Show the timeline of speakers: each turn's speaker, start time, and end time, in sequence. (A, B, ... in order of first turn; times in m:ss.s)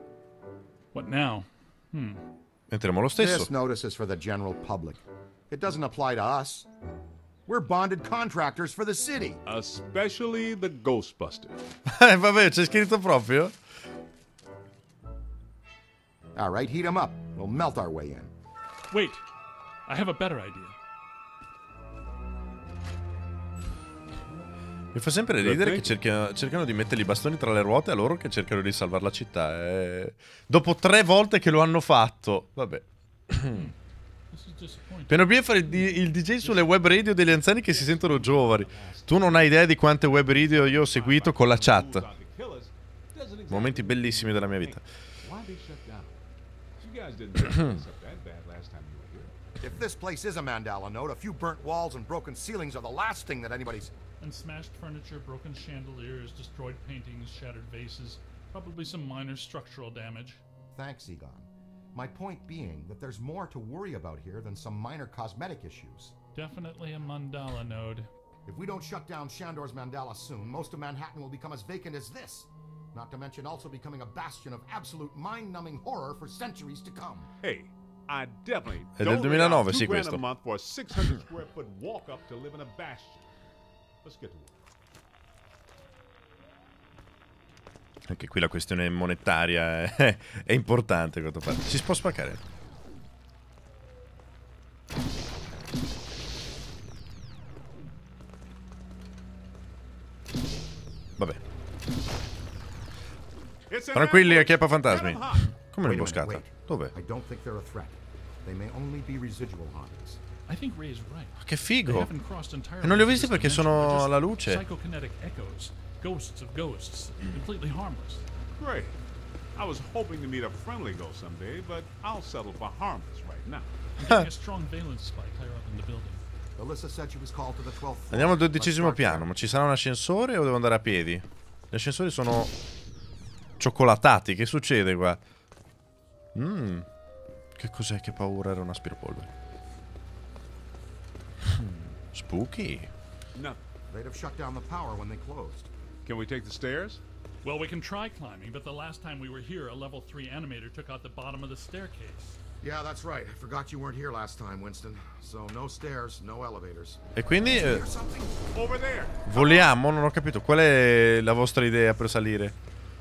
0:00.9-0:02.2 A
0:02.7-0:03.5 B
0:03.2-0:06.7 C
0:07.5-0:09.4 C
0:09.4-0:11.6 D
0:11.9-0:13.5 B
0:16.3-0:18.3 C
0:18.9-0:19.2 A
0:19.9-0:20.7 A
0:24.9-0:33.7 B
0:25.4-0:26.0 D
0:34.3-0:35.3 A
0:35.1-0:42.0 B
0:36.4-0:36.8 A
0:37.3-0:39.4 D
0:40.1-0:46.2 D
0:43.5-0:44.8 B
0:46.8-0:49.3 D
0:47.4-0:47.8 B
0:49.6-0:53.9 C
0:54.2-1:00.4 A
1:00.7-1:06.1 C
1:06.3-1:08.1 A
1:08.4-1:17.3 C
1:17.4-1:23.3 D
1:19.0-1:20.2 B
1:24.0-1:24.7 D
1:28.1-1:32.4 B
1:43.7-1:45.6 D
1:43.9-1:46.9 B
1:45.8-1:50.2 C
1:50.5-1:58.2 A
1:51.4-1:52.1 B
1:52.8-1:54.6 B
1:58.6-1:59.0 D
1:59.5-2:03.7 D
2:04.0-2:06.2 A
2:06.6-2:09.3 C
2:08.1-2:12.5 B
2:13.6-2:15.2 B
2:16.3-2:16.8 B
2:17.6-2:19.3 B
2:21.4-2:22.9 B
2:23.3-2:23.6 D
2:23.9-2:25.7 C
2:26.0-2:27.0 D
2:27.4-2:32.4 A
2:32.6-2:37.0 C
2:37.1-2:37.8 B
2:37.5-2:38.4 C
2:38.5-2:39.7 D
2:39.2-2:42.5 B